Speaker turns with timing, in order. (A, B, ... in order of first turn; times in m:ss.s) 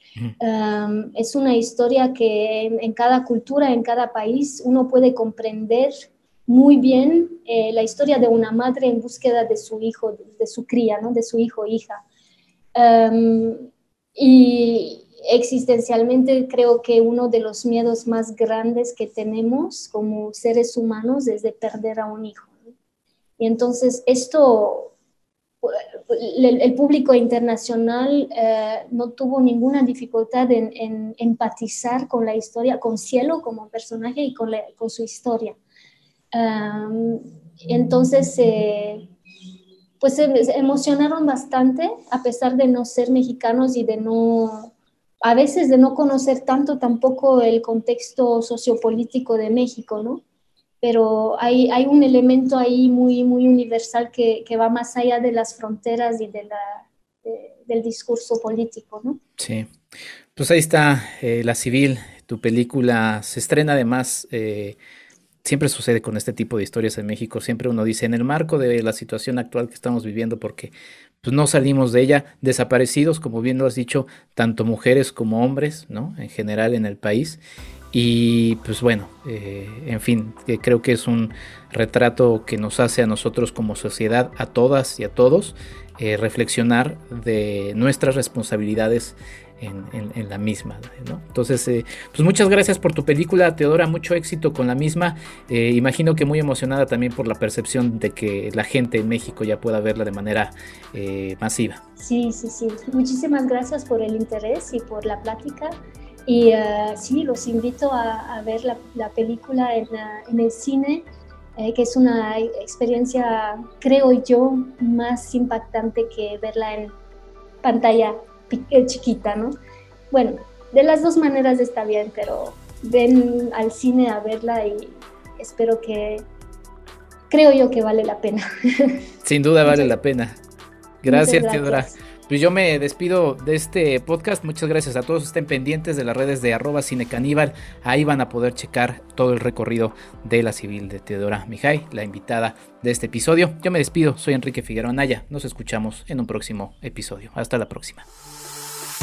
0:00.4-0:12.0 A
0:12.7-0:22.5 A
0:23.4-0:24.9 A
0:25.6-0:35.6 A
0:36.3-0:39.1 A
0:40.0-0:44.7 A
0:45.2-0:50.2 A
0:50.8-0:59.2 A
0:59.4-0:59.7 B
1:00.3-1:04.8 B
1:05.4-1:17.4 B
1:17.9-1:41.8 B
1:42.0-1:45.7 A
1:46.3-1:56.9 A
1:57.6-1:59.5 A
2:00.1-2:06.2 A
2:07.3-2:09.0 A
2:09.2-2:10.4 B
2:09.6-2:09.9 A
2:11.0-2:28.1 B
2:11.1-2:11.9 A